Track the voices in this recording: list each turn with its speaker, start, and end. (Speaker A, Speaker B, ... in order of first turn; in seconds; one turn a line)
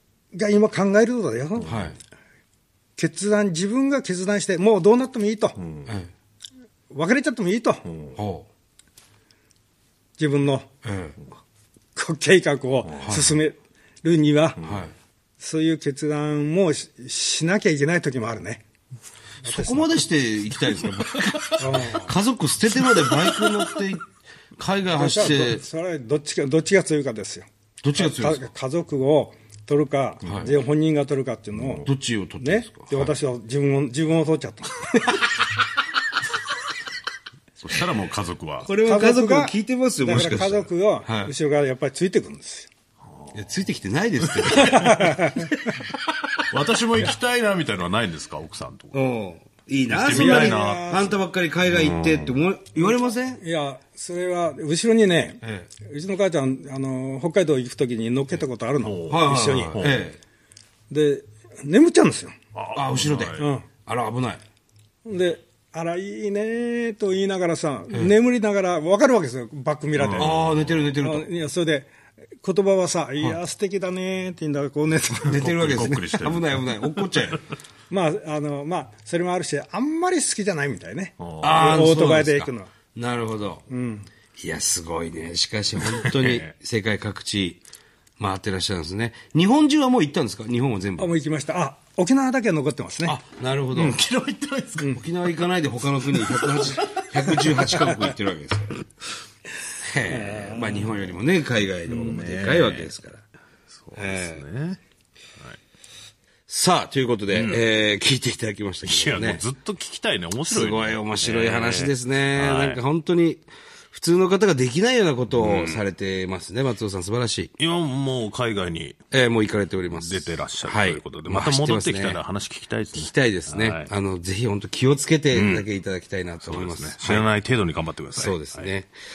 Speaker A: 0.3-1.8
Speaker B: 1.6-2.0
Speaker A: 3.0-5.6
Speaker C: 5.6-5.9
Speaker B: 5.9-6.1
Speaker A: 6.9-7.8
Speaker C: 7.8-8.2
Speaker B: 8.1-8.5
Speaker A: 10.2-10.7
Speaker B: 10.8-11.2
Speaker A: 11.9-14.6
Speaker C: 12.9-13.3
Speaker B: 13.0-13.3
Speaker B: 14.6-14.9
Speaker A: 15.4-18.6
Speaker A: 19.4-19.9
Speaker B: 19.4-25.6
Speaker A: 21.6-22.1
Speaker A: 24.9-31.9
Speaker B: 27.8-28.5
Speaker C: 31.5-31.9
Speaker B: 31.8-33.1
Speaker A: 32.4-35.1
Speaker C: 37.6-38.7
Speaker B: 38.6-41.3
Speaker A: 38.7-42.7
Speaker C: 43.1-43.6
Speaker B: 43.3-45.2
Speaker C: 44.2-45.0
Speaker A: 44.5-45.5
Speaker C: 46.5-49.0
Speaker B: 48.9-53.4
Speaker C: 49.9-52.4
Speaker A: 50.0-51.1
Speaker A: 53.4-59.8
Speaker B: 55.4-55.7
Speaker C: 58.8-60.1
Speaker B: 59.1-60.2
Speaker A: 60.9-62.4
Speaker C: 62.5-63.5
Speaker B: 62.7-64.4
Speaker A: 63.4-63.6
Speaker A: 65.0-70.4
Speaker C: 69.9-70.9
Speaker B: 70.2-71.3
Speaker A: 71.0-71.9
Speaker A: 72.4-75.5
Speaker B: 75.2-77.4
Speaker C: 75.3-77.0
Speaker A: 77.9-82.7
Speaker C: 81.2-81.9
Speaker B: 81.4-83.6
Speaker A: 83.7-84.1
Speaker B: 84.4-87.6
Speaker C: 86.0-86.5
Speaker B: 88.2-91.1
Speaker A: 91.0-93.2
Speaker B: 93.0-94.0
Speaker C: 93.7-95.0
Speaker B: 95.0-98.8
Speaker C: 96.0-97.8
Speaker B: 99.8-103.2
Speaker C: 100.4-100.7
Speaker C: 101.9-102.9
Speaker C: 103.7-104.8
Speaker B: 103.9-104.4
Speaker B: 106.5-109.4
Speaker C: 107.3-107.6
Speaker C: 108.8-112.8
Speaker B: 110.4-117.5
Speaker C: 115.3-115.8
Speaker C: 117.6-119.0
Speaker B: 119.1-122.2
Speaker C: 119.9-123.9
Speaker B: 122.9-127.3
Speaker C: 125.3-125.7
Speaker C: 126.4-128.7
Speaker B: 128.1-128.9